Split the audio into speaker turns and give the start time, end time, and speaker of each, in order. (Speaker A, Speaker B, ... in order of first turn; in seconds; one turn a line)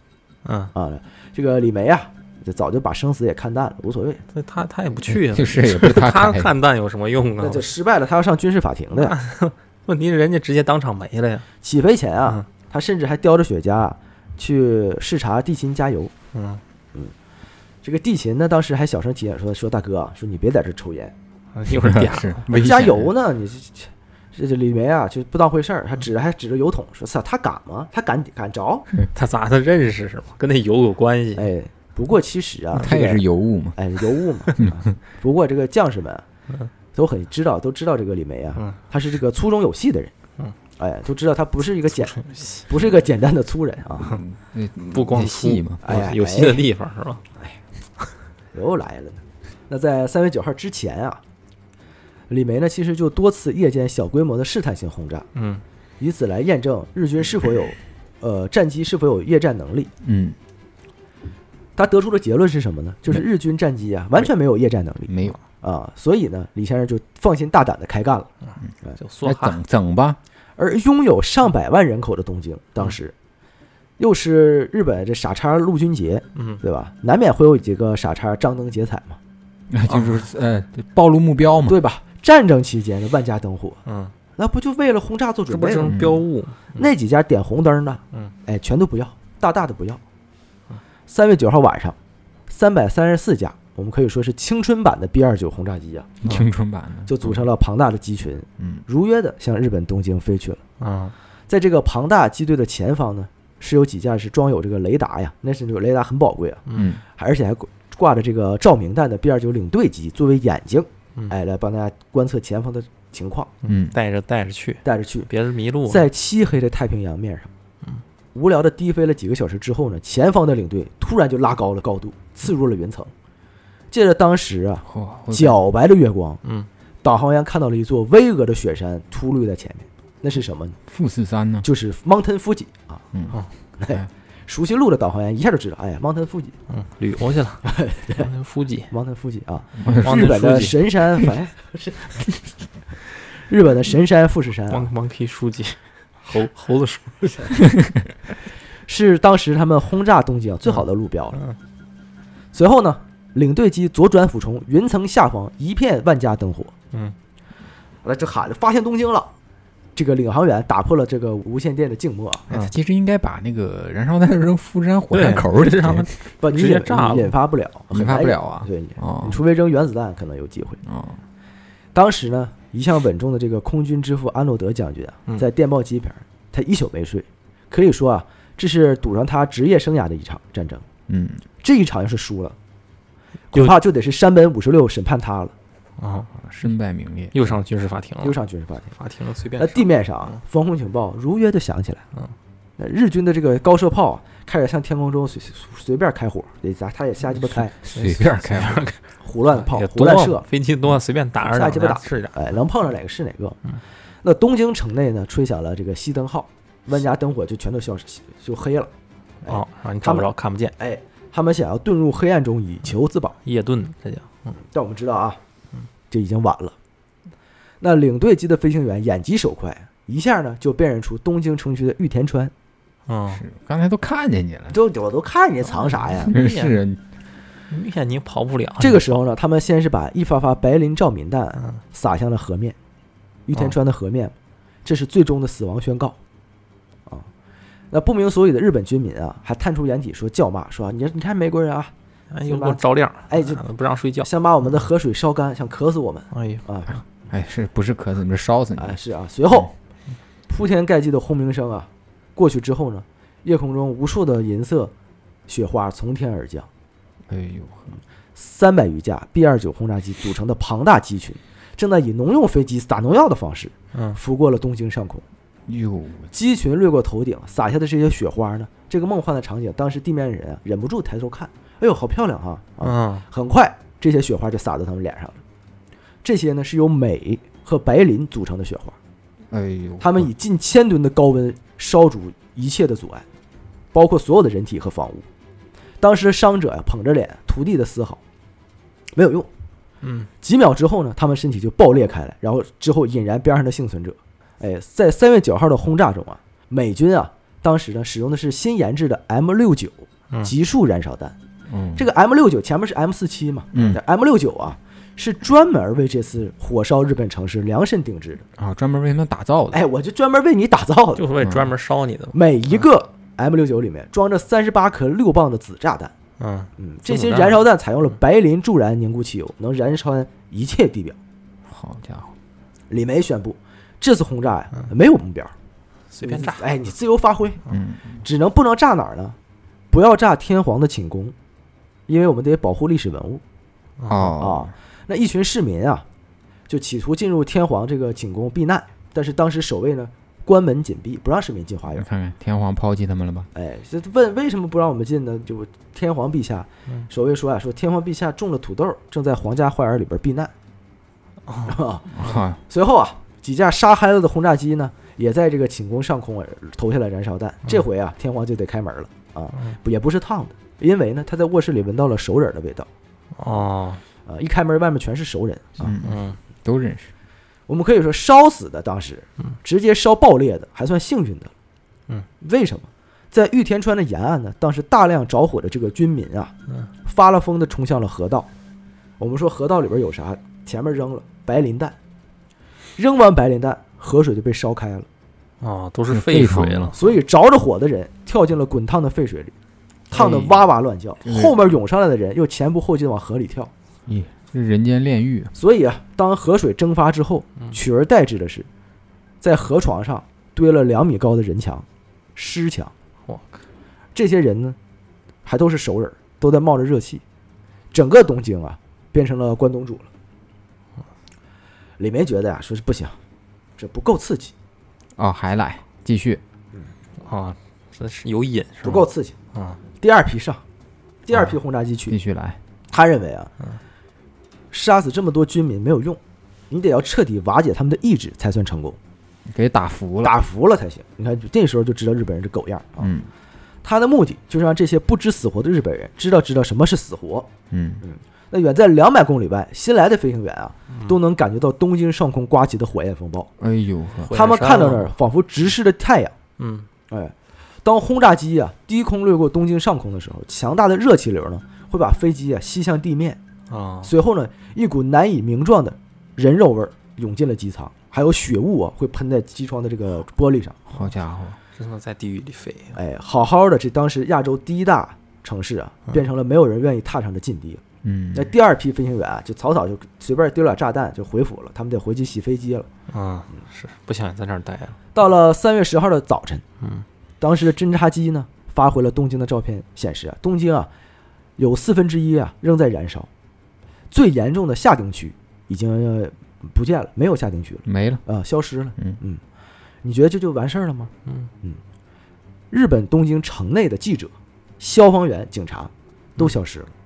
Speaker A: 0.5-0.7
Speaker B: 0.7-4.2
Speaker A: 4.3-7.7
Speaker C: 5.1-6.5
Speaker B: 7.4-9.2
Speaker A: 9.0-11.5
Speaker B: 11.6-16.1
Speaker A: 16.3-16.6
Speaker B: 17.8-21.1
Speaker A: 21.6-22.7
Speaker C: 21.7-23.1
Speaker B: 22.5-28.9
Speaker A: 29.1-31.5
Speaker B: 31.4-36.2
Speaker C: 32.8-33.8
Speaker B: 36.9-40.1
Speaker B: 40.8-44.2
Speaker A: 41.9-42.6
Speaker C: 44.0-45.8
Speaker A: 44.9-47.2
Speaker B: 45.8-46.6
Speaker B: 48.5-51.2
Speaker B: 52.3-55.3
Speaker A: 55.4-55.6
Speaker B: 56.0-59.9
Speaker C: 60.0-60.4
Speaker B: 61.8-68.3
Speaker C: 65.1-65.4
Speaker A: 69.0-69.6
Speaker C: 69.2-70.2
Speaker B: 70.6-73.1
Speaker B: 74.0-79.2
Speaker A: 76.3-76.6
Speaker C: 79.7-81.8
Speaker A: 79.9-80.2
Speaker B: 81.7-83.8
Speaker A: 83.9-84.1
Speaker B: 84.4-86.0
Speaker A: 85.5-86.9
Speaker C: 85.9-86.2
Speaker B: 86.8-90.0
Speaker B: 91.1-92.0
Speaker B: 92.5-96.2
Speaker C: 96.2-97.4
Speaker B: 97.1-100.6
Speaker A: 100.8-101.1
Speaker B: 101.5-106.6
Speaker A: 106.7-106.9
Speaker C: 106.7-107.0
Speaker B: 107.2-113.5
Speaker A: 113.6-116.1
Speaker C: 113.7-114.0
Speaker B: 114.8-115.3
Speaker B: 115.9-117.5
Speaker B: 118.3-123.1
Speaker B: 123.9-126.4
Speaker C: 124.9-125.6
Speaker A: 126.4-126.7
Speaker B: 127.0-130.8
Speaker C: 130.9-131.7
Speaker B: 131.6-133.1
Speaker C: 133.1-133.4
Speaker B: 133.8-136.6
Speaker A: 136.7-138.9
Speaker B: 137.6-138.3
Speaker B: 138.9-142.2
Speaker C: 139.8-140.6
Speaker A: 139.9-140.8
Speaker B: 143.3-144.9
Speaker A: 144.7-147.6
Speaker B: 148.9-151.4
Speaker B: 152.5-156.7
Speaker B: 158.0-159.3
Speaker B: 160.0-162.5
Speaker C: 162.5-166.1
Speaker A: 165.1-167.3
Speaker B: 166.4-170.8
Speaker C: 167.9-169.4
Speaker C: 170.8-171.2
Speaker B: 171.9-180.8
Speaker C: 181.1-181.4
Speaker B: 181.6-182.6
Speaker B: 183.5-185.5
Speaker A: 186.0-186.3
Speaker C: 186.4-187.5
Speaker A: 187.3-188.4
Speaker B: 188.2-188.9
Speaker A: 189.0-190.4
Speaker B: 189.6-192.0
Speaker B: 192.8-197.7
Speaker C: 197.8-198.8
Speaker A: 197.8-202.5
Speaker B: 199.2-200.5
Speaker B: 201.4-203.6
Speaker B: 204.2-208.9
Speaker B: 209.4-213.4
Speaker A: 209.5-210.7
Speaker A: 213.4-214.5
Speaker B: 214.6-215.4
Speaker B: 216.1-216.8
Speaker B: 217.8-222.5
Speaker A: 223.1-223.4
Speaker C: 223.3-224.8
Speaker B: 224.7-226.3
Speaker A: 226.1-226.8
Speaker C: 226.3-227.0
Speaker A: 227.7-229.1
Speaker B: 228.8-232.8
Speaker B: 233.5-234.3
Speaker B: 234.8-236.2
Speaker B: 237.9-241.9
Speaker A: 242.3-244.3
Speaker B: 242.4-243.6
Speaker B: 244.2-246.9
Speaker A: 246.3-246.7
Speaker C: 247.3-249.0
Speaker B: 248.8-249.7
Speaker B: 250.5-254.9
Speaker B: 255.5-256.7
Speaker C: 257.3-258.0
Speaker B: 258.4-265.2
Speaker A: 263.9-264.2
Speaker C: 265.7-266.3
Speaker B: 266.3-275.4
Speaker A: 272.8-273.2
Speaker B: 276.2-279.0
Speaker C: 279.5-280.3
Speaker B: 280.0-283.3
Speaker B: 283.9-285.3
Speaker B: 286.0-288.2
Speaker B: 289.2-289.5
Speaker A: 290.0-290.3
Speaker B: 290.4-301.4
Speaker C: 301.7-302.0
Speaker B: 301.9-308.4
Speaker C: 303.7-304.0
Speaker C: 308.6-309.8
Speaker B: 309.7-311.3
Speaker A: 311.2-312.4
Speaker C: 311.4-311.7
Speaker B: 312.3-316.1
Speaker A: 316.4-317.6
Speaker B: 316.8-321.2
Speaker C: 321.7-322.3
Speaker B: 322.9-325.5
Speaker A: 326.1-326.7
Speaker B: 326.2-327.6
Speaker C: 327.7-328.2
Speaker B: 328.2-329.4
Speaker B: 329.9-331.3
Speaker B: 332.1-333.4
Speaker A: 334.0-334.3
Speaker C: 334.1-334.7
Speaker B: 334.3-336.1
Speaker B: 336.7-342.1
Speaker C: 341.9-343.5
Speaker B: 343.5-350.5
Speaker A: 351.5-351.8
Speaker B: 351.7-362.9
Speaker C: 352.1-352.6
Speaker A: 363.4-364.0
Speaker B: 364.3-365.9
Speaker C: 365.8-367.1
Speaker A: 366.0-366.4
Speaker B: 367.7-371.5
Speaker B: 372.4-376.5
Speaker B: 377.1-378.5
Speaker B: 379.2-382.0
Speaker B: 383.0-385.1
Speaker A: 385.6-387.0
Speaker C: 386.1-386.9
Speaker B: 386.9-389.5
Speaker B: 390.1-393.7
Speaker A: 390.1-390.6
Speaker C: 391.2-391.6
Speaker C: 394.1-395.5
Speaker B: 395.6-398.7
Speaker B: 399.4-402.9
Speaker A: 403.3-403.6
Speaker B: 404.1-404.8
Speaker B: 405.4-407.2
Speaker B: 407.9-410.1
Speaker B: 412.0-413.2
Speaker B: 413.8-414.5
Speaker C: 415.2-416.4
Speaker A: 417.2-419.8
Speaker B: 418.8-419.4
Speaker B: 420.0-420.6
Speaker B: 421.3-422.2
Speaker C: 422.1-422.6
Speaker B: 422.9-423.5
Speaker B: 424.7-426.2
Speaker B: 426.7-429.0
Speaker C: 429.5-430.4
Speaker B: 430.2-433.1
Speaker C: 433.0-433.3
Speaker B: 433.8-437.5
Speaker C: 437.7-438.0
Speaker B: 438.0-443.5
Speaker A: 440.9-441.2
Speaker C: 443.6-444.4
Speaker A: 444.2-445.1
Speaker B: 444.3-446.3
Speaker A: 446.6-446.9
Speaker B: 447.9-453.4
Speaker A: 453.7-454.1
Speaker B: 454.0-460.8
Speaker C: 460.9-461.6
Speaker A: 461.8-463.0
Speaker B: 462.9-467.8
Speaker C: 468.0-468.5
Speaker B: 468.3-472.9
Speaker A: 473.1-475.0
Speaker B: 475.1-476.6
Speaker A: 476.8-477.1
Speaker B: 477.4-480.9
Speaker B: 481.6-483.3
Speaker B: 484.1-489.4
Speaker C: 487.9-488.2
Speaker B: 490.0-491.1
Speaker A: 491.3-491.5
Speaker B: 492.7-496.9